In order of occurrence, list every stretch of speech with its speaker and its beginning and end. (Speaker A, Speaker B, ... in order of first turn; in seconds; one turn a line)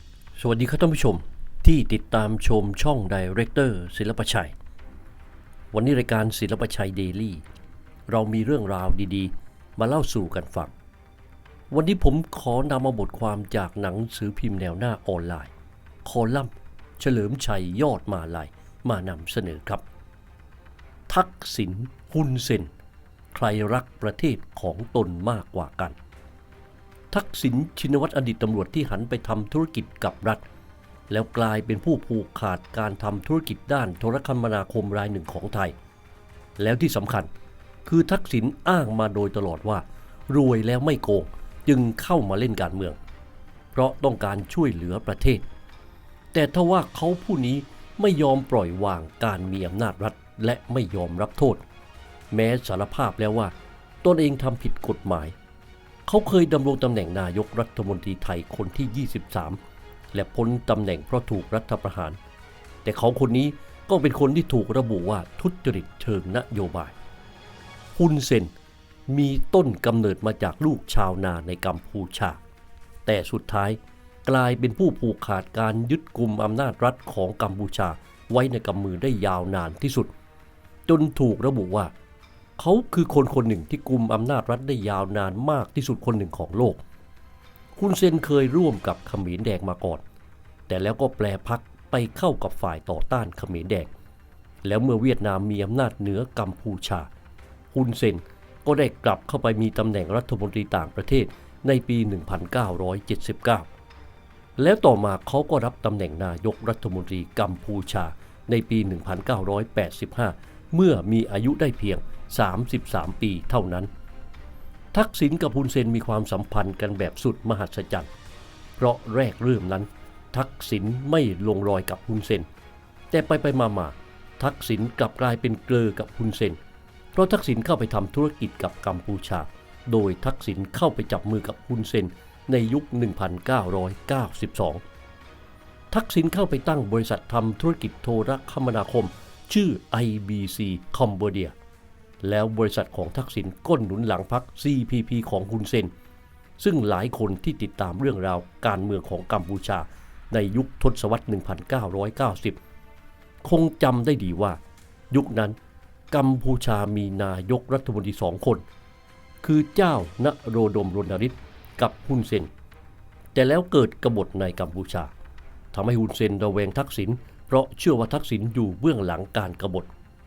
Speaker A: 0.4-4.5
Speaker A: 5.7-7.4
Speaker A: 8.1-10.7
Speaker A: 11.7-15.5
Speaker A: 16.1-19.8
Speaker A: 21.1-22.7
Speaker A: 23.3-26.0
Speaker A: 27.1-30.4
Speaker A: 31.1-35.8
Speaker A: 36.6-37.3
Speaker A: 37.9-43.0
Speaker A: 43.7-45.5
Speaker A: 46.3-51.6
Speaker A: 52.3-55.4
Speaker A: 56.1-59.6
Speaker A: 60.1-62.2
Speaker A: 62.9-66.9
Speaker A: 68.0-68.5
Speaker A: 69.1-72.4
Speaker A: 73.1-80.1
Speaker A: 80.9-81.9
Speaker A: 82.6-86.8
Speaker A: 87.8-90.0
Speaker A: 90.7-93.9
Speaker A: 94.6-97.1
Speaker A: 97.7-103.7
Speaker A: 104.6-113.9
Speaker A: 114.9-118.1
Speaker A: 118.8-122.5
Speaker A: 123.1-126.6
Speaker A: 127.1-134.8
Speaker A: 135.9-141.5
Speaker A: 142.2-145.9
Speaker A: 146.6-152.6
Speaker A: 153.4-154.6
Speaker A: 155.1-155.6
Speaker A: 156.1-158.6
Speaker A: 159.4-162.5
Speaker A: 163.3-165.1
Speaker A: 165.7-169.9